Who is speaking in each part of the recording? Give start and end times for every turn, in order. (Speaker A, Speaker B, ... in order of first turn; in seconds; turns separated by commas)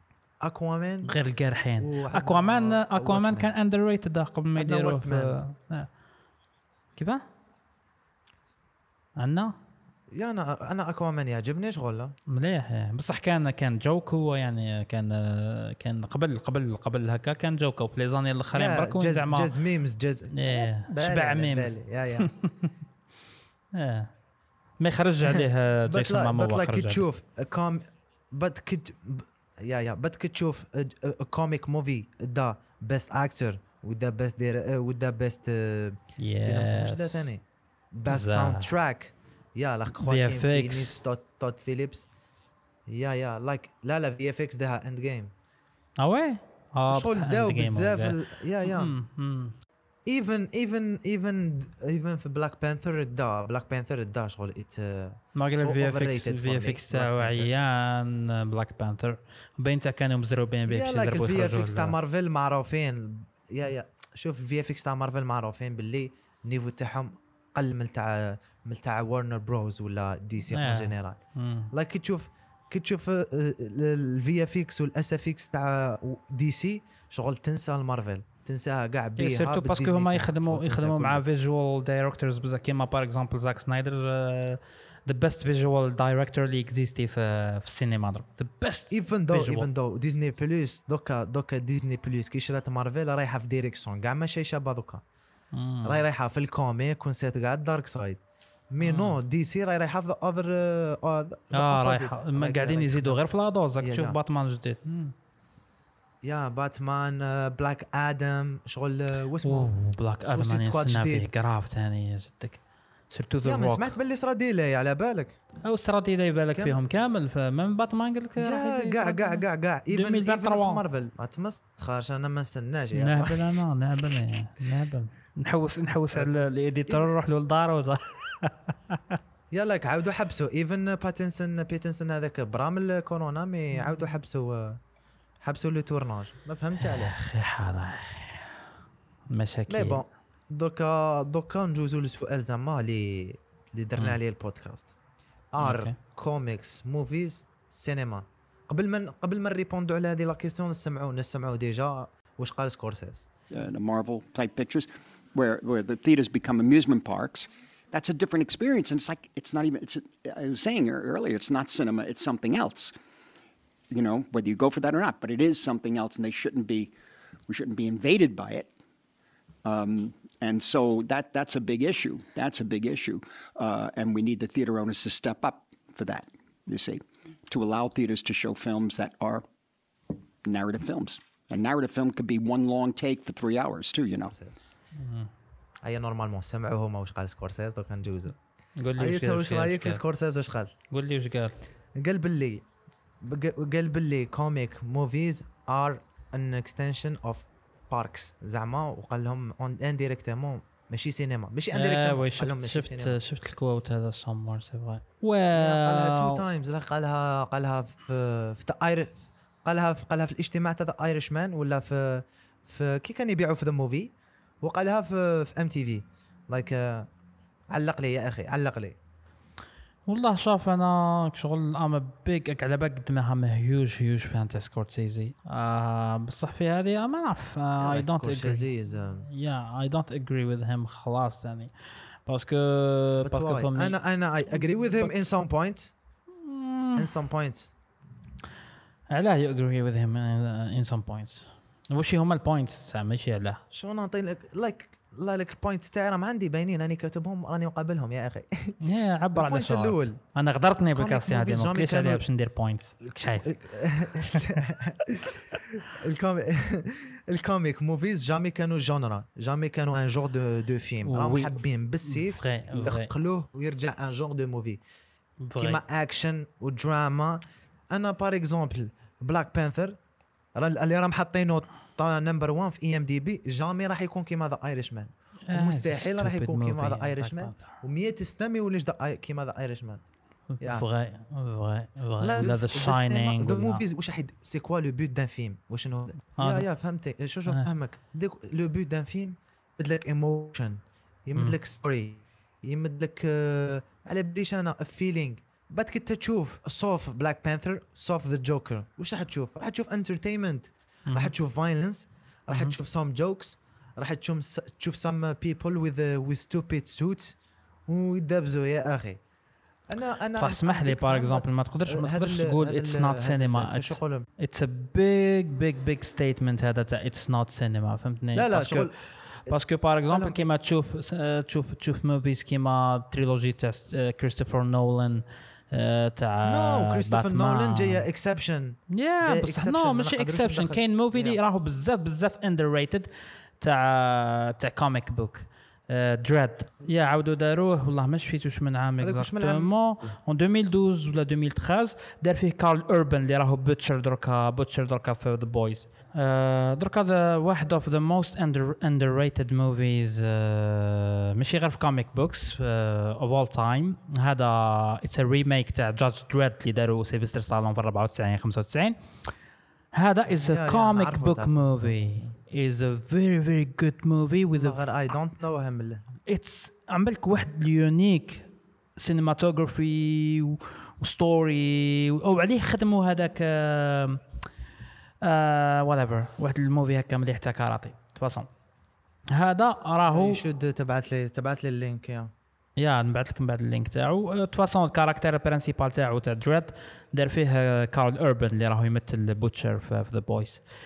Speaker A: 0.4-1.1, Speaker B: 1.1-5.9, Speaker A: 1.8-3.5, Speaker A: 4.6-5.4, Speaker B: 7.0-7.2, Speaker B: 9.2-9.5, Speaker A: 10.1-12.1, Speaker B: 12.3-19.5, Speaker A: 18.5-22.3, Speaker B: 20.3-22.7, Speaker B: 23.7-24.1, Speaker B: 24.8-27.0, Speaker A: 25.3-42.1, Speaker B: 36.2-37.3, Speaker B: 38.1-38.7, Speaker B: 40.0-41.0, Speaker A: 42.9-45.3, Speaker B: 46.0-49.5, Speaker A: 46.9-48.9, Speaker A: 50.1-57.5, Speaker B: 55.4-61.9, Speaker A: 60.7-71.2, Speaker B: 70.5-71.7, Speaker A: 71.7-81.2, Speaker B: 79.2-89.7, Speaker A: 88.9-95.0, Speaker B: 95.5-96.0, Speaker A: 95.8-98.2, Speaker A: 98.7-103.2, Speaker B: 98.8-99.2, Speaker B: 101.5-105.1, Speaker A: 103.8-104.2, Speaker A: 106.2-111.3, Speaker B: 109.4-113.9, Speaker A: 113.4-115.4, Speaker B: 115.6-120.8, Speaker A: 116.5-116.8, Speaker A: 118.4-123.5, Speaker B: 123.0-129.2, Speaker A: 126.1-127.1, Speaker A: 129.5-134.8, Speaker A: 135.4-137.1, Speaker B: 136.8-138.6, Speaker B: 139.3-140.0, Speaker A: 139.7-144.9, Speaker A: 145.5-153.3, Speaker B: 145.6-145.9, Speaker C: 153.5-162.9, Speaker C: 163.9-166.9, Speaker C: 167.5-168.7, Speaker C: 169.7-179.4, Speaker C: 180.4-184.4, Speaker A: 184.3-184.6, Speaker B: 185.0-185.3, Speaker A: 185.8-188.3, Speaker B: 188.8-190.0, Speaker A: 189.0-190.7, Speaker B: 190.9-191.5, Speaker A: 191.9-192.7, Speaker A: 193.2-203.2, Speaker B: 201.7-206.4, Speaker A: 205.6-217.1, Speaker A: 217.7-219.0, Speaker B: 220.1-228.7, Speaker A: 227.8-229.3, Speaker B: 229.2-231.7, Speaker B: 232.2-235.2, Speaker A: 233.2-235.9, Speaker B: 236.4-237.1, Speaker A: 236.9-237.7, Speaker B: 239.1-243.6, Speaker A: 243.7-248.8, Speaker B: 248.8-253.7, Speaker A: 249.3-250.2, Speaker A: 251.0-252.2, Speaker A: 253.4-264.8, Speaker B: 254.3-254.6, Speaker B: 261.1-263.1, Speaker B: 265.4-265.8, Speaker A: 265.6-270.0, Speaker A: 270.6-280.0, Speaker B: 275.5-277.6, Speaker B: 280.5-283.8, Speaker A: 280.6-280.9, Speaker A: 282.2-307.4, Speaker B: 286.4-286.7, Speaker A: 307.9-309.2, Speaker A: 309.9-314.3, Speaker B: 310.4-328.0, Speaker A: 318.4-318.9, Speaker A: 320.1-320.5, Speaker A: 326.4-331.4, Speaker B: 328.9-359.0, Speaker A: 339.0-339.7, Speaker B: 359.9-364.8, Speaker A: 360.4-362.3, Speaker A: 364.5-366.0, Speaker B: 366.3-374.2, Speaker B: 375.2-378.5, Speaker B: 379.3-380.4, Speaker A: 380.1-382.3, Speaker B: 382.8-390.6